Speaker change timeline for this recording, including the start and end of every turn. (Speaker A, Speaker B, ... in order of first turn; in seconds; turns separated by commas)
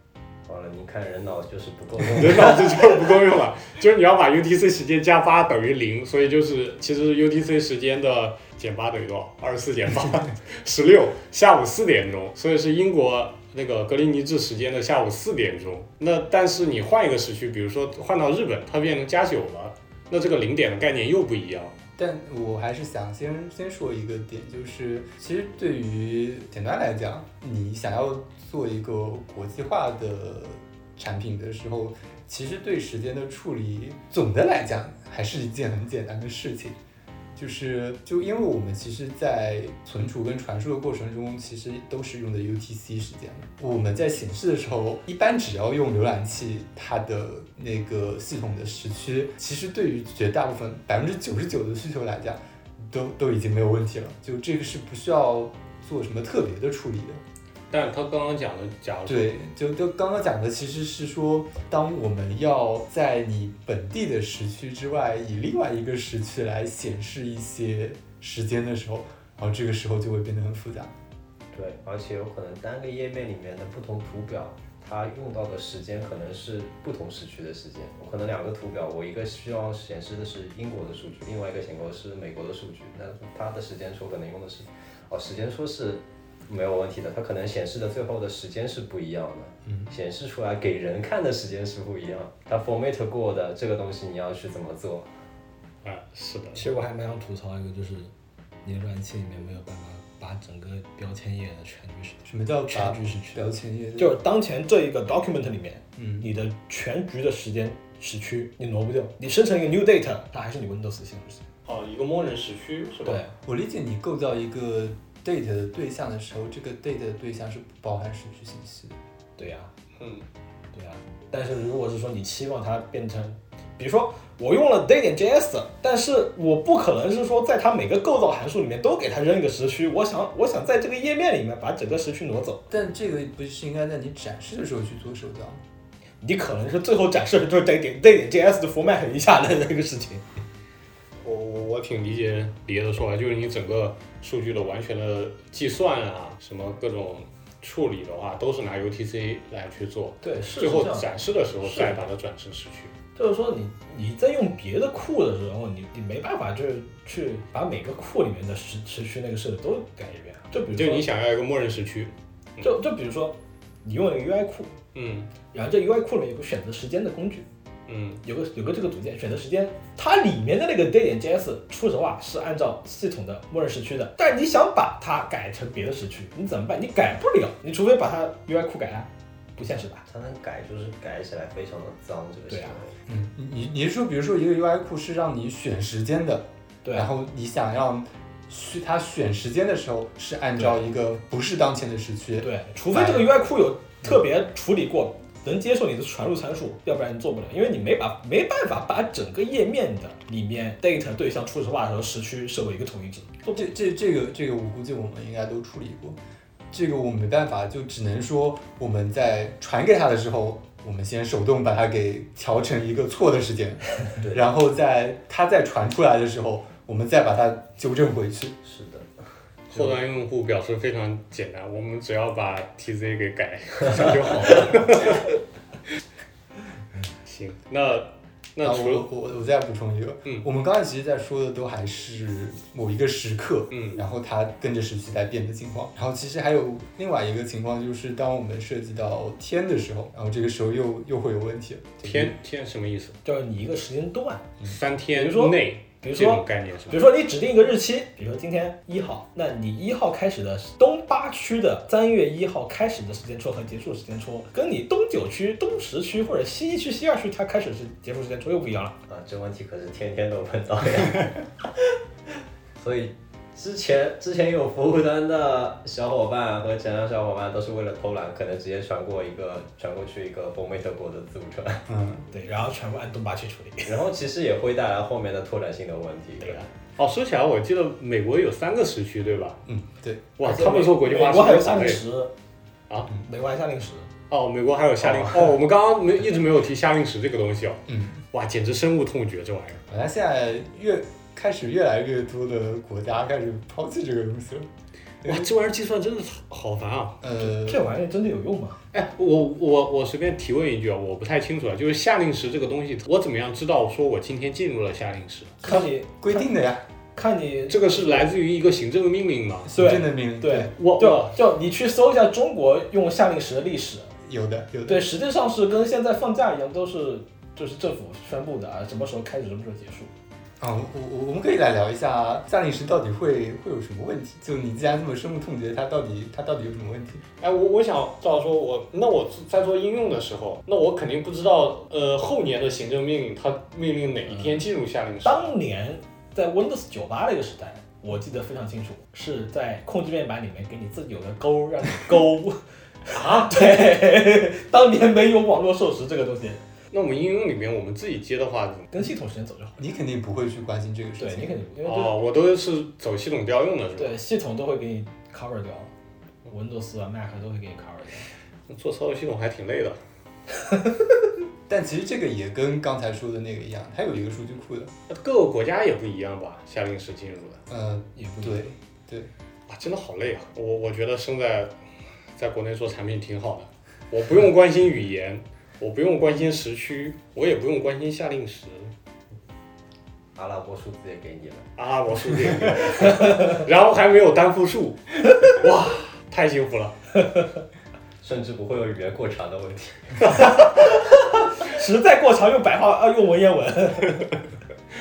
Speaker A: 0.4-3.1, Speaker B: 2.1-21.8, Speaker C: 22.0-36.8, Speaker C: 37.3-57.2, Speaker B: 57.7-59.3, Speaker C: 59.0-70.9, Speaker A: 71.5-95.1, Speaker C: 89.7-89.9, Speaker B: 95.8-96.6, Speaker D: 96.5-98.1, Speaker D: 98.6-103.4, Speaker C: 102.2-104.2, Speaker D: 104.0-111.4, Speaker C: 106.0-106.3, Speaker B: 111.6-113.2, Speaker D: 113.0-113.3, Speaker C: 113.4-118.9, Speaker D: 119.4-119.7, Speaker B: 120.0-120.2, Speaker D: 120.7-132.7, Speaker C: 132.7-135.6, Speaker D: 136.2-140.2, Speaker B: 141.2-152.9, Speaker D: 150.2-151.1, Speaker D: 151.6-152.0, Speaker D: 153.1-161.1, Speaker B: 160.7-162.7, Speaker D: 162.6-164.7, Speaker B: 164.9-165.3, Speaker D: 165.5-167.4, Speaker B: 167.9-168.2, Speaker D: 168.2-180.0, Speaker A: 180.1-182.9, Speaker D: 182.5-182.8, Speaker C: 183.1-193.3, Speaker D: 186.8-187.1, Speaker D: 190.6-190.9, Speaker D: 192.4-203.7, Speaker C: 203.5-206.2, Speaker C: 206.7-218.6, Speaker A: 218.6-219.1, Speaker B: 219.7-225.3, Speaker B: 227.2-229.1, Speaker C: 228.6-242.3, Speaker B: 233.7-234.0, Speaker B: 242.0-243.2, Speaker D: 243.2-244.5, Speaker B: 244.6-247.1, Speaker D: 245.1-259.0, Speaker A: 259.1-261.6, Speaker A: 262.7-271.9, Speaker C: 271.9-272.3, Speaker D: 272.3-274.0, Speaker A: 273.9-276.7, Speaker B: 276.4-279.6, Speaker C: 279.6-280.2, Speaker B: 280.4-282.0, Speaker D: 280.4-282.3, Speaker D: 283.2-284.1, Speaker B: 284.3-289.8, Speaker D: 285.0-285.6, Speaker C: 287.9-288.2, Speaker C: 289.9-294.7, Speaker B: 295.2-297.2, Speaker C: 297.2-297.9, Speaker D: 297.3-298.8, Speaker B: 298.9-305.6, Speaker D: 305.6-306.5, Speaker C: 305.6-306.8, Speaker D: 307.1-308.3, Speaker B: 307.7-309.7, Speaker D: 309.7-314.1, Speaker C: 309.7-310.7, Speaker B: 310.8-311.4, Speaker C: 314.2-315.1, Speaker D: 314.9-320.1, Speaker C: 320.6-327.2, Speaker B: 327.4-335.5, Speaker D: 335.2-346.6, Speaker B: 343.1-343.8, Speaker B: 346.9-348.9, Speaker D: 348.9-349.8, Speaker C: 349.8-351.6, Speaker D: 351.2-352.1, Speaker B: 351.8-354.2, Speaker D: 354.0-355.9, Speaker D: 356.5-358.3, Speaker B: 358.7-360.0, Speaker C: 361.7-364.9, Speaker B: 365.1-367.6, Speaker C: 367.7-369.3, Speaker D: 368.2-368.7, Speaker B: 369.7-371.8, Speaker B: 372.3-378.9, Speaker A: 380.3-381.7, Speaker B: 381.8-387.0, Speaker A: 388.2-390.5, Speaker D: 390.4-394.4